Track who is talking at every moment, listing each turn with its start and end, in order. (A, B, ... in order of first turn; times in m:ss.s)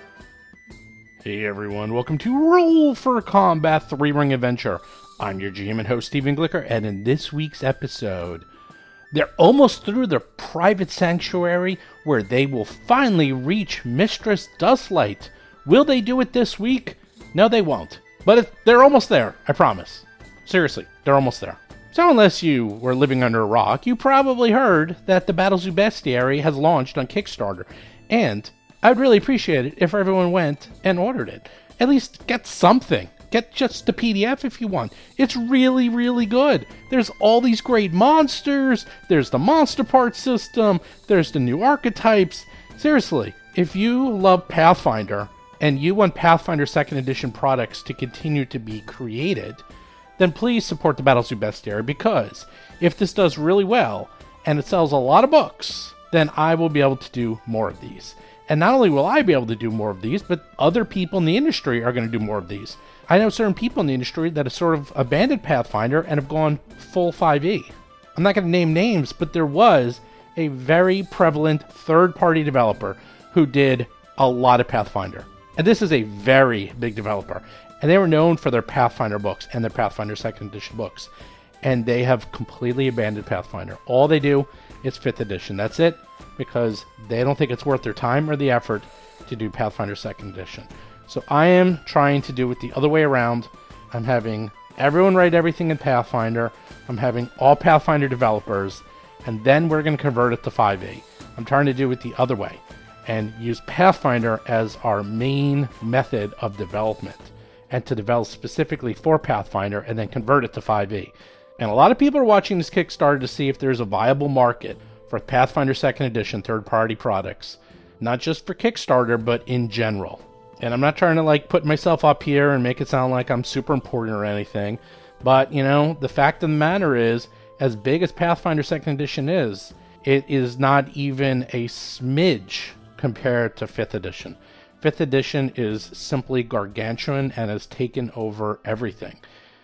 0:01.2-0:08.5 A
0:09.1-0:49.6 A
0:50.2-1:21.1 A
1:21.6-2:19.2 A